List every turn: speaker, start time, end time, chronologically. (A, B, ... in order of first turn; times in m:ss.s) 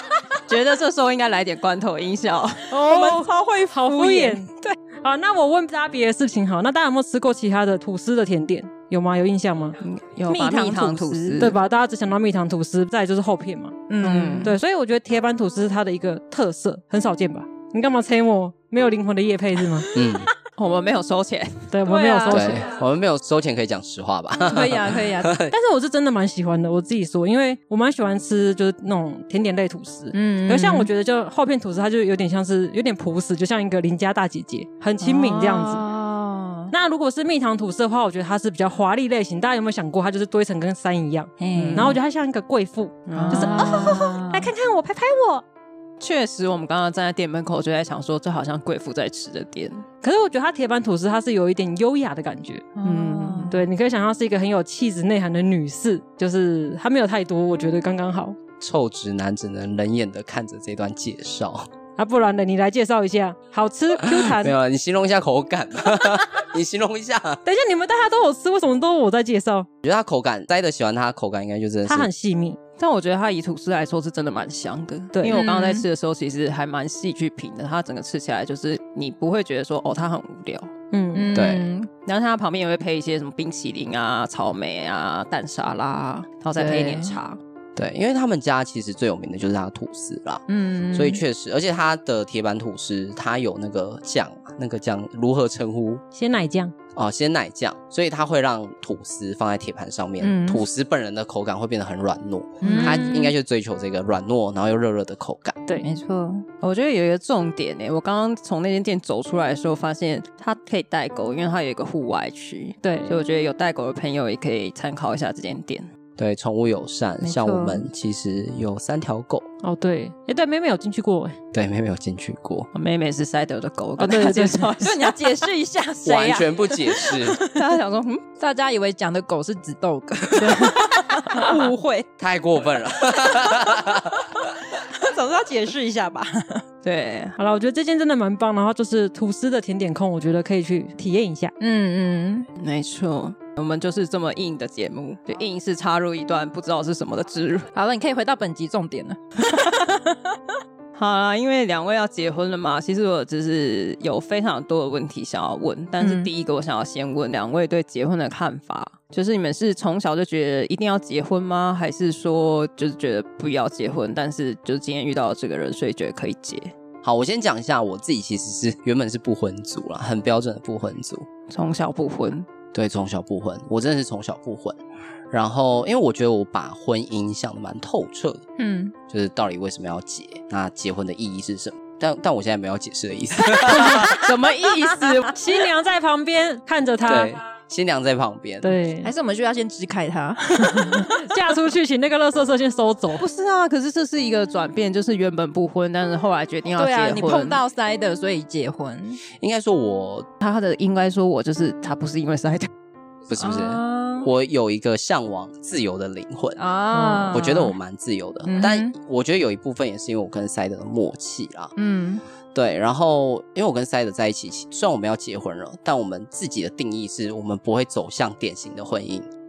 0:00.4-0:02.8 A
0:02.7-0:04.8 B
0:02.8-0:09.8 C
0:09.8-0:11.6 A
0:10.3-0:11.5 B
0:11.4-0:13.9 C
0:13.9-0:14.5 B
0:14.0-0:14.5 A
0:14.4-0:19.9 C
0:19.9-0:20.3 D
0:20.6-0:21.7 A
0:21.7-0:22.6 C
0:21.8-0:22.6 B
0:22.3-0:25.5 D
0:24.4-0:25.3 B
0:25.5-0:35.8 C
0:30.1-0:30.9 B
0:35.0-0:36.7 B
0:36.7-0:45.4 C
0:41.4-0:42.0 B
0:41.5-0:42.0 A
0:43.1-0:44.1 A
0:43.1-0:44.5 B
0:46.0-0:49.8 A
0:50.0-0:52.7 C
0:52.8-0:53.6 B
0:52.8-0:53.5 A
0:53.5-0:58.4 C
0:58.6-1:01.7 D
1:02.0-1:04.5 C
1:04.0-1:07.4 D
1:07.4-1:09.7 C
1:09.8-1:12.1 D
1:11.8-1:12.6 C
1:12.8-1:20.7 A
1:15.1-1:15.4 C
1:15.3-1:15.8 B
1:20.9-1:21.4 C
1:21.1-1:21.9 B
1:21.3-1:21.7 D
1:22.0-1:27.4 A
1:26.5-1:27.2 B
1:27.8-1:36.0 D
1:30.5-1:31.2 B
1:36.1-1:36.7 C
1:36.9-1:45.6 D
1:40.2-1:40.6 A
1:42.6-1:43.3 B
1:45.8-1:46.4 B
1:46.6-1:55.9 A
1:52.8-1:53.2 C
1:56.2-1:59.5 D
1:57.2-1:57.8 B
1:59.6-2:01.4 C
2:01.5-2:02.7 D
2:02.7-2:05.1 A
2:04.0-2:04.7 C
2:04.8-2:07.6 B
2:06.0-2:07.4 D
2:07.4-2:08.2 A
2:08.4-2:12.1 B
2:10.4-2:10.7 C
2:12.2-2:14.2 D
2:14.8-2:16.6 B
2:16.8-2:17.4 A
2:17.4-2:21.5 C
2:21.6-2:22.5 B
2:22.6-2:27.7 A
2:27.7-2:30.4 B
2:31.0-2:46.7 A
2:36.0-2:36.3 B
2:47.0-2:51.3 D
2:51.5-2:52.4 A
2:52.7-2:54.8 D
2:55.3-2:58.4 D
2:58.6-2:58.9 B
2:59.1-3:04.2 D
3:03.6-3:04.2 B
3:03.7-3:05.4 A
3:05.3-3:07.4 C
3:07.0-3:08.7 D
3:08.6-3:09.1 C
3:09.0-3:11.2 B
3:10.7-3:13.2 C
3:13.2-3:17.6 A
3:16.8-3:19.2 B
3:19.4-3:20.3 D
3:20.4-3:22.7 A
3:23.3-3:26.6 D
3:23.4-3:24.3 B
3:26.6-3:27.7 B
3:26.9-3:27.3 A
3:27.3-3:31.7 D
3:28.4-3:28.9 B
3:31.8-3:32.2 B
3:32.5-3:39.3 D